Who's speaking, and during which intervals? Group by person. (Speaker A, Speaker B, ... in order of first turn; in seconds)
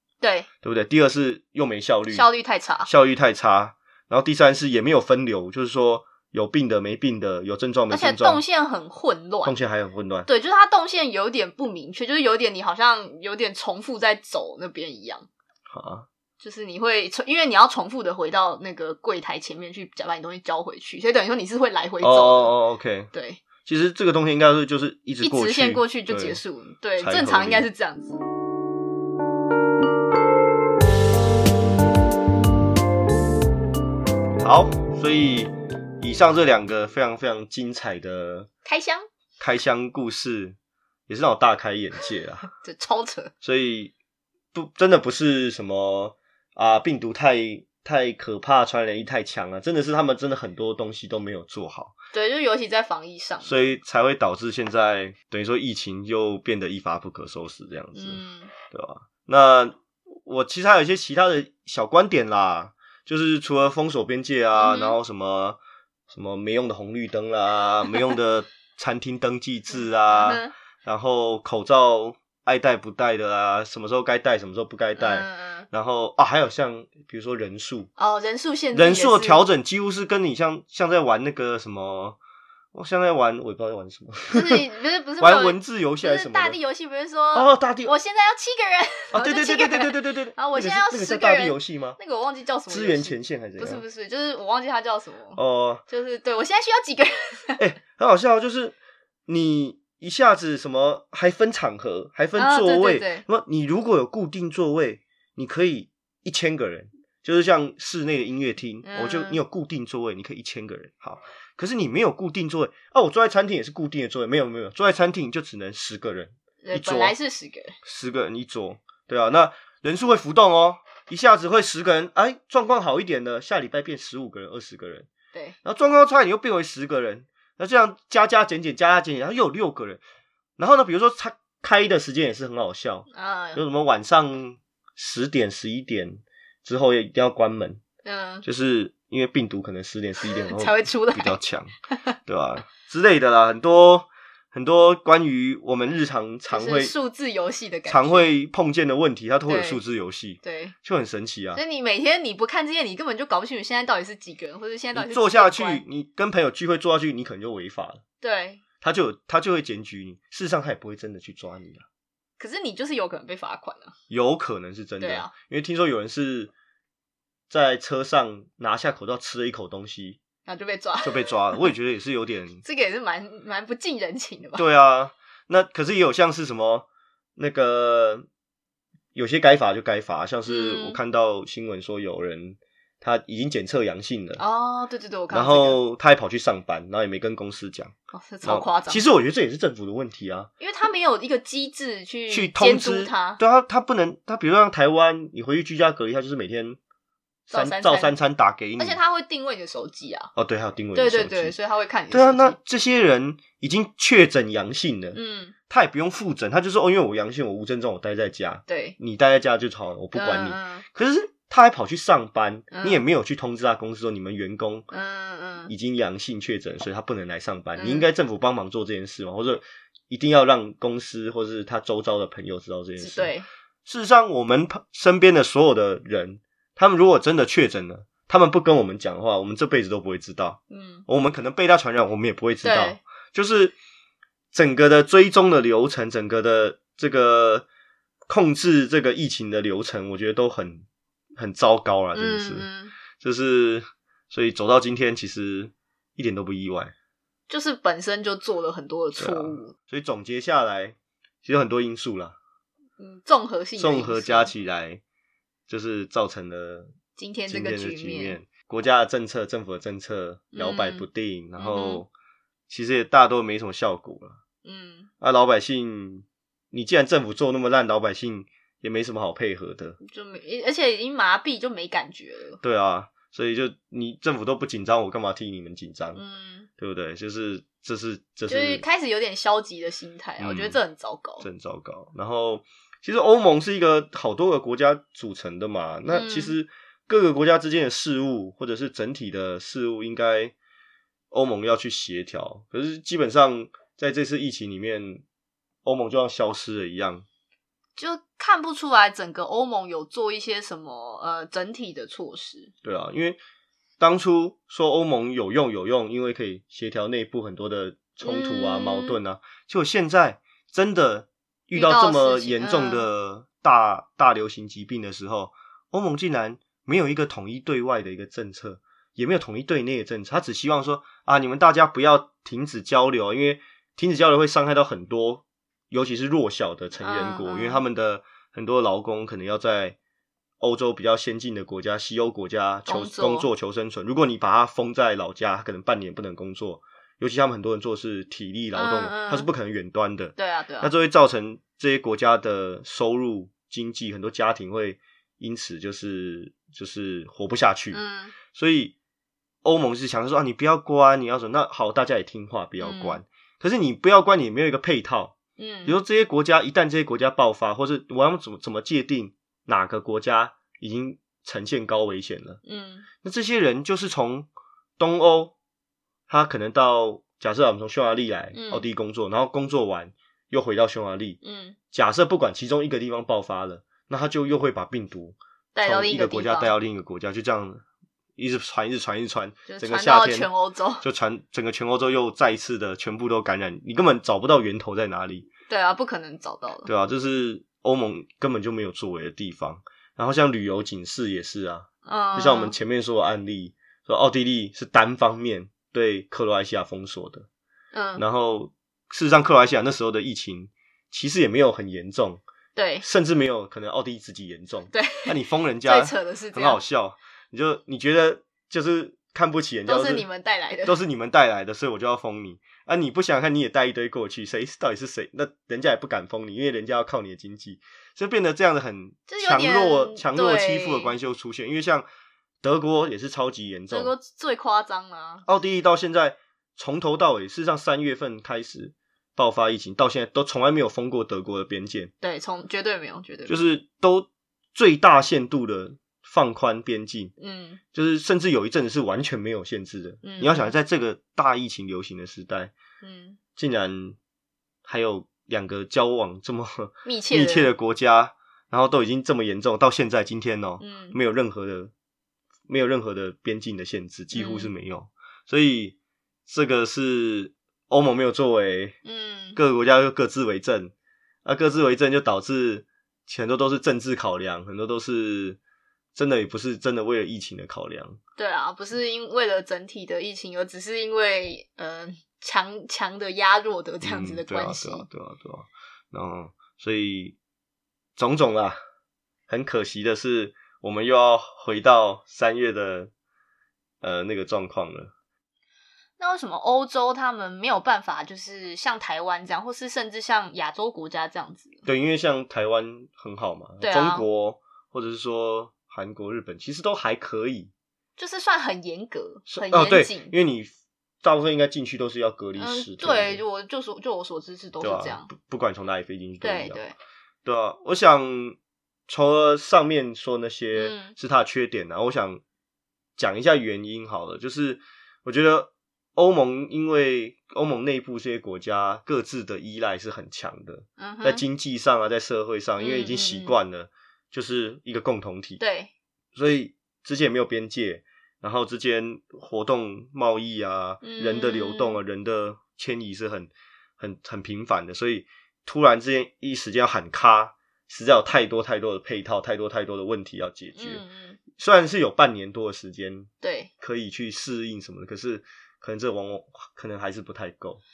Speaker A: 0.2-0.5, 2.1-2.9, 7.9-9.6, 10.3-15.3, 16.4-22.5, 23.1-23.4, 25.2-28.2, 38.6-39.0, 42.6-43.3, 52.1-53.5, 57.9-58.5, 64.5-65.0, 69.7-70.5, 75.0-75.7, 78.0-79.4, 84.3-97.6, 102.3-103.2, 108.8-109.4, 116.6-117.8, 133.1-133.6, 138.0-138.4, 140.2-141.4, 141.9-142.2, 146.5-148.3, 149.5-149.8, 150.4-150.7, 151.5-155.8, 158.2-158.6, 162.4-163.9, 165.0-165.3, 170.4-171.7, 172.6-174.6, 180.4-181.0, 184.4-185.8, 188.1-189.0, 190.6-193.4, 197.5-198.2, 198.8-200.3, 200.9-202.6, 205.1-205.5, 208.7-208.9, 210.1-210.8, 212.7-213.0, 214.9-215.7, 217.8-218.1, 223.0-223.4, 230.7-231.0, 232.6-233.0, 242.1-242.9, 247.5-249.7, 253.0-254.5, 257.2-258.4, 260.5-262.0, 264.6-265.1, 270.0-272.6, 276.1-276.7, 278.5-281.4, 286.1-286.5, 297.9-302.7, 308.2-309.2, 311.7-313.1, 327.0-327.8, 332.9-333.5, 338.7-339.5, 340.4-340.9, 347.9-348.3, 352.8-353.2, 355.6-356.0, 362.6-363.1, 368.5-368.8, 371.4-371.8, 375.7-376.7, 379.7-381.0, 385.7-386.9, 392.0-392.7, 397.9-398.2, 402.7-403.0, 404.9-406.8, 409.9-410.9, 419.3-421.1, 423.9-425.4, 432.2-433.6, 437.4-437.8, 440.2-440.7, 443.0-443.4, 447.0-447.7, 450.8-451.2, 454.3-454.7, 459.0-459.6, 468.4-475.1, 486.2-491.8, 493.8-494.2, 498.2-500.3, 502.6-505.3, 506.4-506.9, 510.7-511.1, 521.0-521.4, 522.8-523.5, 525.6-525.9, 531.0-532.0, 540.8-541.4, 543.4-543.7
Speaker B: 0.6-2.3, 2.8-8.4, 9.4-10.3, 15.7-16.1, 22.0-23.1, 23.6-26.4, 27.0-27.7, 34.4-38.5, 39.4-40.5, 41.1-42.5, 43.4-43.9, 44.5-52.0, 53.4-77.9, 78.7-82.2, 82.7-84.6, 85.2-86.6, 87.3-87.9, 89.1-92.0, 92.7-93.8, 95.3-95.8, 97.6-117.2, 117.8-125.1, 125.6-130.0, 130.6-137.8, 138.4-141.7, 142.2-146.9, 147.9-151.6, 154.9-158.0, 158.8-161.8, 164.1-166.5, 167.5-170.2, 171.0-172.6, 174.6-178.2, 179.1-184.4, 185.3-187.9, 188.4-190.5, 192.3-196.8, 197.5-199.0, 200.3-201.6, 202.1-205.2, 205.7-214.9, 215.7-223.3, 223.8-233.7, 234.5-237.7, 238.3-240.8, 241.4-242.7, 243.2-246.9, 249.2-252.3, 253.8-255.0, 255.7-256.9, 257.5-262.1, 262.7-264.4, 265.2-270.0, 272.6-276.2, 276.8-278.8, 280.4-280.8, 281.4-290.5, 291.3-295.2, 295.8-297.2, 302.8-303.4, 304.0-330.0, 330.6-348.0, 348.5-348.9, 349.6-362.6, 363.2-365.5, 366.3-371.4, 371.9-377.8, 378.4-380.5, 381.0-385.5, 386.9-397.5, 398.2-402.4, 403.0-410.2, 410.8-422.1, 422.6-424.1, 425.4-432.1, 433.5-437.3, 437.9-442.7, 443.6-444.2, 444.9-451.9, 452.7-455.9, 456.5-459.0, 459.6-460.9, 461.4-465.6, 466.1-468.2, 474.0-477.4, 478.2-478.8, 479.5-483.1, 484.0-485.1, 491.9-497.7, 499.5-503.4, 504.8-506.8, 507.4-508.6, 509.1-512.4, 513.2-525.6, 526.3-541.0, 541.6-543.3, 543.8-547.8